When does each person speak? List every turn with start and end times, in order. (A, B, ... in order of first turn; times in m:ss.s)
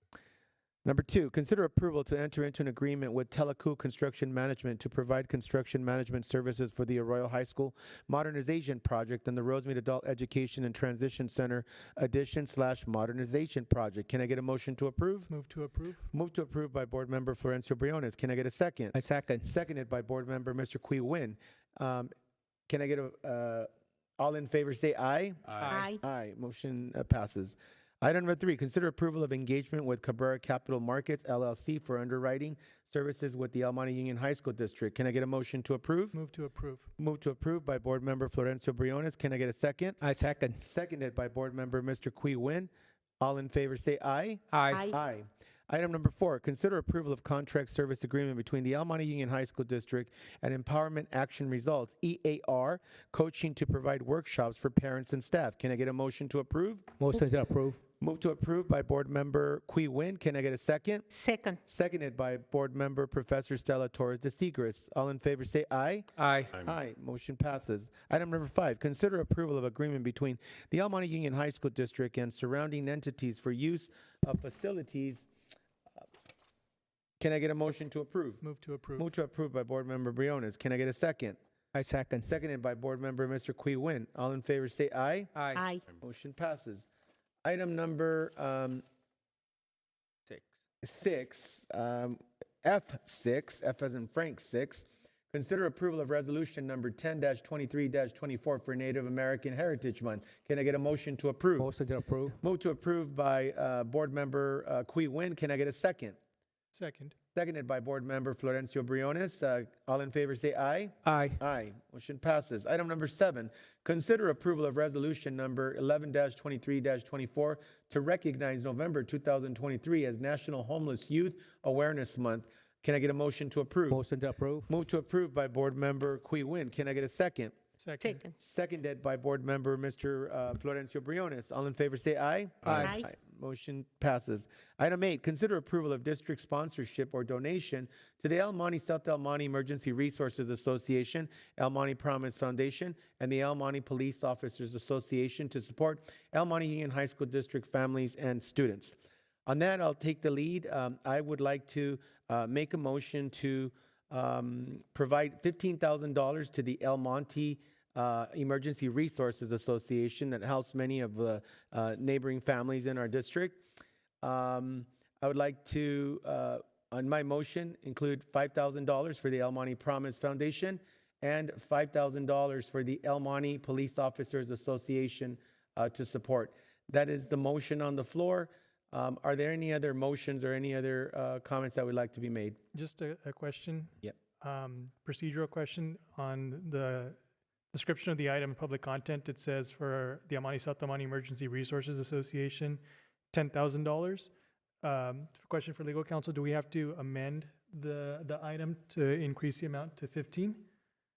0:00.8-0:15.3 A
0:15.3-0:16.1 B
0:16.1-0:22.1 A
0:18.9-0:19.5 C
0:22.7-0:36.2 A
0:25.5-0:25.9 C
0:25.7-0:26.0 D
0:36.1-0:36.9 B
0:37.0-0:56.9 A
0:40.0-0:40.6 C
0:44.5-0:44.8 C
0:44.7-0:45.0 D
0:57.0-0:57.8 C
0:58.0-1:01.0 A
1:01.1-1:01.6 D
1:01.6-1:15.3 A
1:06.2-1:06.5 C
1:17.2-1:18.4 A
1:18.4-1:19.1 B
1:19.0-1:21.4 A
1:21.7-1:22.3 C
1:22.2-1:25.3 A
1:25.3-1:25.6 C
1:25.5-1:25.8 D
1:25.9-1:26.8 A
1:27.4-1:28.8 A
1:30.8-1:41.7 A
1:41.6-1:42.4 C
1:42.4-1:46.2 A
1:46.7-1:47.1 B
1:47.3-2:04.0 A
1:51.0-1:51.4 C
2:03.9-2:04.7 C
2:04.7-2:07.5 A
2:07.8-2:08.2 B
2:08.0-2:08.3 D
2:08.4-2:43.6 A
2:12.6-2:12.9 C
2:12.8-2:13.1 D
2:44.2-3:02.6 A
3:02.7-3:07.2 B
3:07.7-3:12.8 B
3:13.3-3:14.3 B
3:14.8-3:20.6 B